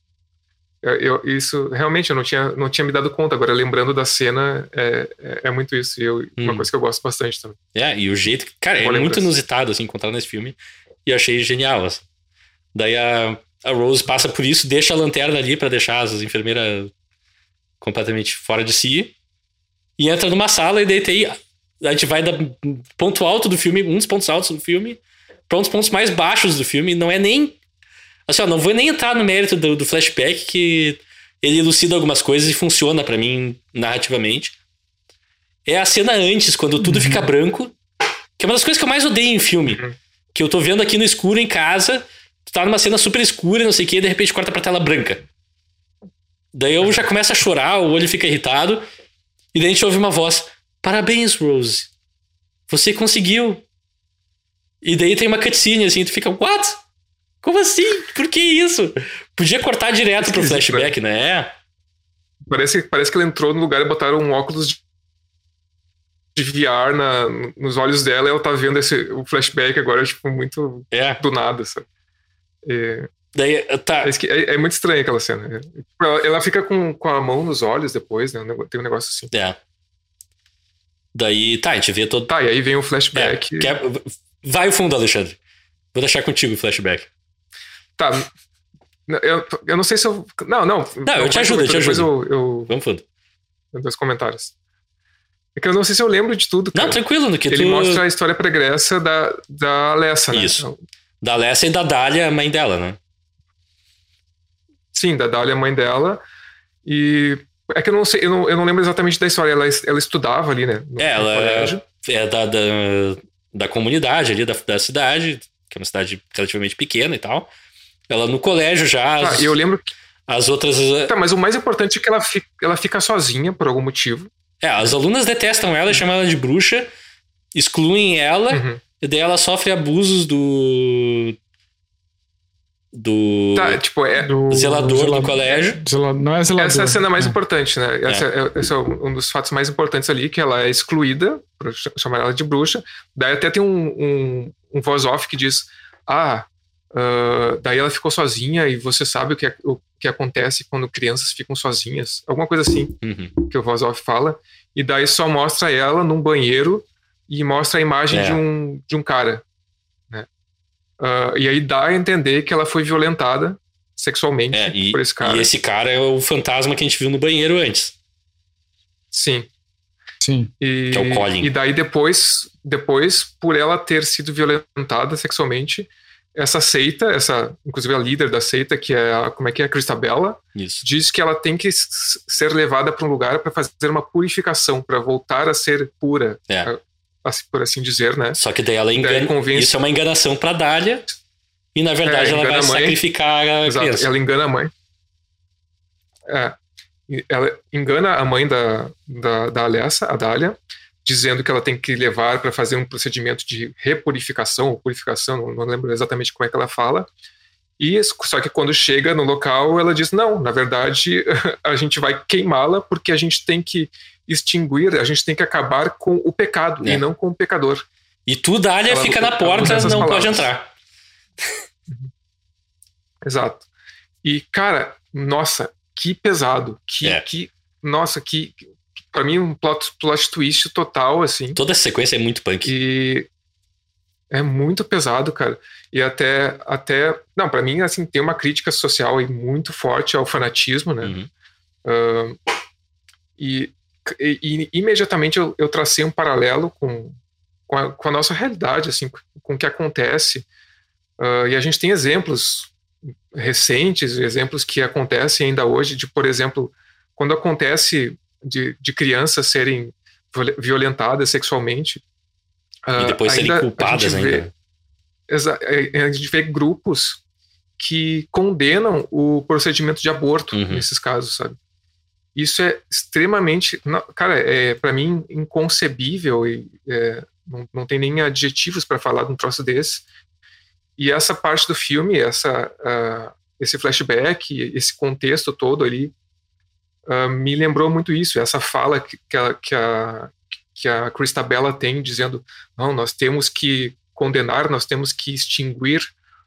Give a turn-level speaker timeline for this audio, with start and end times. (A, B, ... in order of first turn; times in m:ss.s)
0:00.8-0:07.6 A
0:06.4-0:06.7 B
0:07.7-0:12.1 B
0:08.8-0:09.3 A
0:12.7-0:16.9 B
0:17.8-0:19.1 B
0:20.0-0:27.6 B
0:28.3-0:34.6 B
0:35.7-0:37.7 B
0:36.8-0:37.3 C
0:38.4-0:39.8 B
0:39.7-0:40.0 A
0:40.3-0:45.2 B
0:46.5-0:48.8 B
0:49.5-0:51.9 B
0:52.7-0:53.6 B
0:54.8-0:56.8 B
0:57.4-1:01.5 B
1:00.2-1:00.9 A
1:02.5-1:04.8 A
1:06.4-1:11.9 A
1:10.9-1:11.2 B
1:12.6-1:13.1 A
1:13.3-1:14.1 B
1:14.0-1:19.3 A
1:19.3-1:19.6 B
1:21.1-1:22.3 B
1:22.3-1:23.8 A
1:23.1-1:25.4 B
1:25.9-1:27.1 B
1:28.0-1:28.3 A
1:29.1-1:32.7 A
1:31.0-1:32.1 B
1:32.7-1:33.0 B
1:33.7-1:34.5 A
1:35.6-1:40.8 A
1:36.7-1:38.0 B
1:40.3-1:40.6 B
1:41.2-1:43.0 B
1:44.9-1:46.2 A
1:46.8-1:51.8 A
1:51.0-1:57.5 B
1:58.1-1:59.6 B
1:59.2-1:59.9 A
2:00.3-2:01.1 B
2:01.1-2:04.3 A
2:04.6-2:06.9 B
2:07.6-2:11.4 B
2:08.5-2:08.8 A
2:12.9-2:13.8 B
2:13.6-2:14.3 A
2:14.2-2:17.4 C
2:14.5-2:15.8 B
2:16.6-2:39.4 A
2:33.0-2:33.3 B
2:38.1-2:38.4 B
2:41.0-2:45.5 A
2:44.5-2:48.0 B
2:49.1-2:49.5 A
2:50.2-2:50.5 C
2:50.6-3:08.4 A
2:50.9-2:51.5 B
3:00.6-3:00.8 B
3:08.4-3:11.0 B
3:09.0-3:09.8 A
3:11.7-3:14.1 B
3:12.0-3:13.0 A
3:13.6-3:14.7 A
3:16.3-3:16.6 A
3:17.1-3:27.1 A
3:27.8-3:37.8 A
3:38.3-3:40.7 B
3:38.9-3:40.5 A
3:43.2-3:43.6 A
3:44.2-3:51.6 A
3:51.6-3:52.7 B
3:52.6-3:53.3 A
3:54.3-4:01.2 A
4:01.0-4:01.3 B
4:01.8-4:02.4 A
4:03.4-4:07.2 A
4:07.7-4:10.5 A
4:11.2-4:12.7 A
4:13.3-4:22.0 A
4:22.9-4:24.5 A
4:23.0-4:24.5 B
4:25.3-4:27.2 A
4:27.8-4:31.6 A
4:30.5-4:30.9 B
4:32.4-4:40.0 A
4:41.0-4:46.1 A
4:47.1-4:56.1 A